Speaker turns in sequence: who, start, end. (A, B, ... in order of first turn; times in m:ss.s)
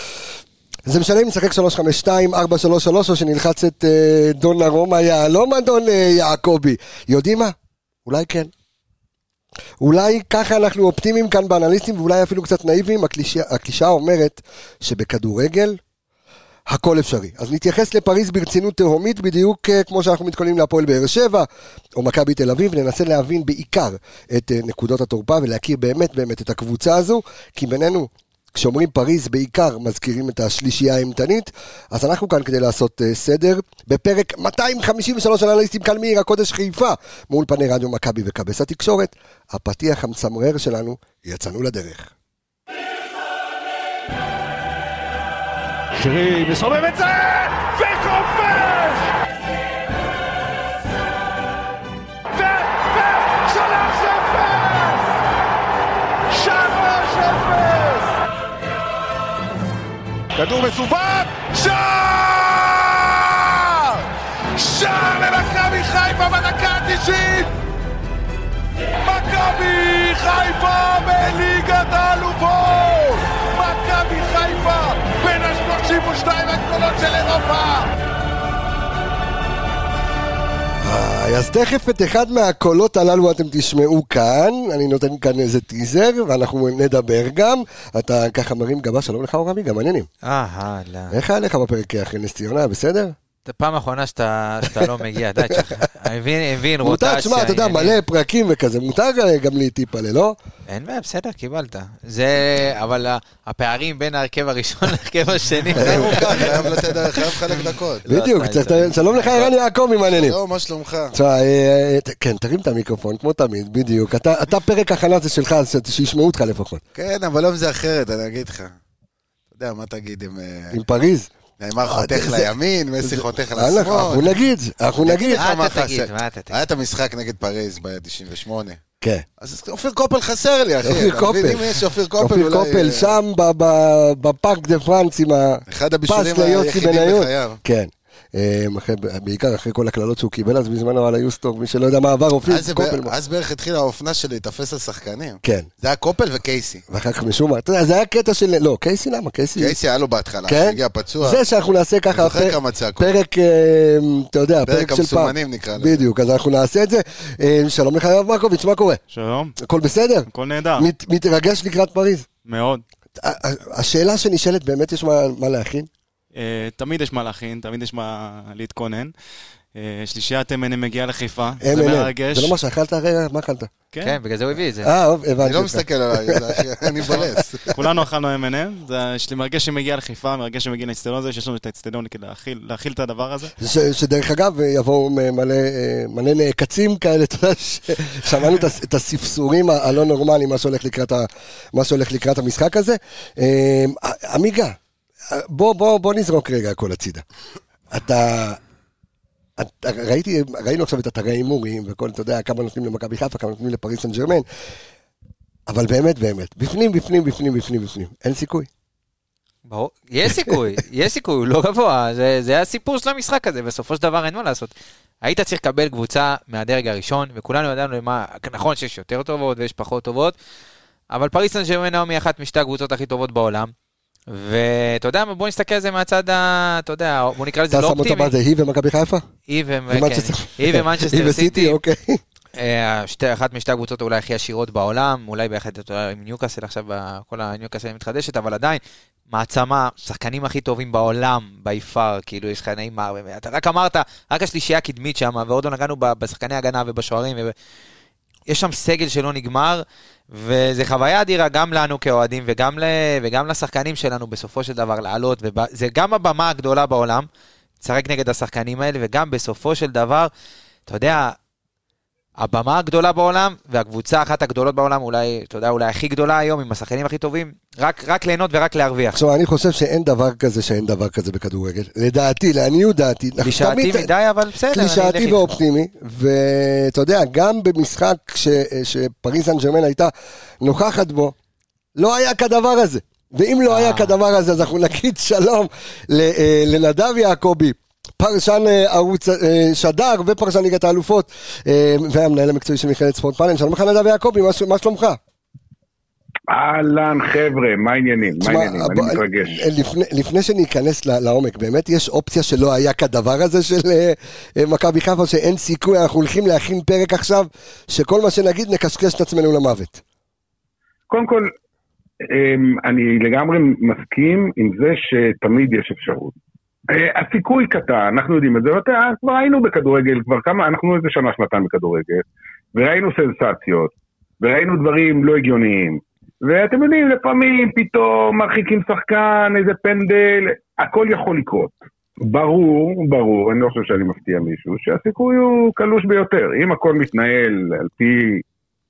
0:00.8-0:07.5 A
0:08.0-0:08.5 A
0:09.8-0:15.8 A
0:16.7-0:42.1 A
0:46.0-0:49.1 B
0:52.3-0:55.2 B
0:56.3-0:58.2 B
1:00.4-1:07.5 B
1:09.0-1:17.9 B
1:20.8-1:30.1 A
1:30.2-1:31.1 C
1:31.1-1:33.1 A
1:33.4-1:38.0 C
1:36.8-1:40.4 A
1:40.7-1:49.5 C
1:45.7-1:48.0 D
1:45.8-1:46.4 A
1:48.0-1:50.4 A
1:50.1-1:51.1 D
1:51.1-1:56.8 A
1:56.9-1:58.7 D
1:59.5-2:00.8 D
2:00.7-2:01.3 A
2:01.6-2:04.3 D
2:01.9-2:05.4 A
2:05.0-2:08.8 D
2:05.3-2:06.6 C
2:09.4-2:13.1 D
2:10.8-2:23.1 A
2:15.7-2:17.6 D
2:22.4-2:26.8 D
2:25.4-2:25.7 A
2:26.9-2:29.7 A
2:29.6-2:31.4 D
2:30.4-2:39.0 A
2:32.1-2:33.1 D
2:34.7-2:36.0 D
2:39.1-2:39.6 E
2:39.6-2:42.3 A
2:40.3-2:40.9 E
2:42.4-2:42.8 E
2:43.2-2:45.9 A
2:46.3-2:49.1 E
2:49.7-2:52.5 E
2:51.6-2:53.7 A
2:53.9-2:54.2 E
2:54.0-2:54.9 C
2:54.8-2:57.7 A
2:55.4-2:57.7 D
2:57.6-3:03.5 E
3:03.6-3:14.8 A
3:15.3-3:17.2 A
3:17.9-3:18.6 A
3:19.6-3:24.4 A
3:25.7-3:28.7 A
3:29.6-3:40.4 C
3:41.1-3:43.7 C
3:44.3-3:48.3 C
3:47.7-3:49.2 A
3:49.5-3:51.8 C
3:49.9-3:52.2 A
3:52.6-4:07.5 C
4:08.5-4:17.3 C
4:17.8-4:20.3 C
4:20.9-4:21.4 C
4:22.4-4:29.2 C
4:29.1-4:34.1 A
4:33.4-4:35.5 C
4:34.7-4:41.3 A
4:42.0-4:55.2 A
4:43.7-4:44.2 C
4:56.5-4:59.6 F
4:58.4-5:10.0 A
5:11.1-5:11.5 F
5:12.2-5:16.3 F
5:16.9-5:38.4 F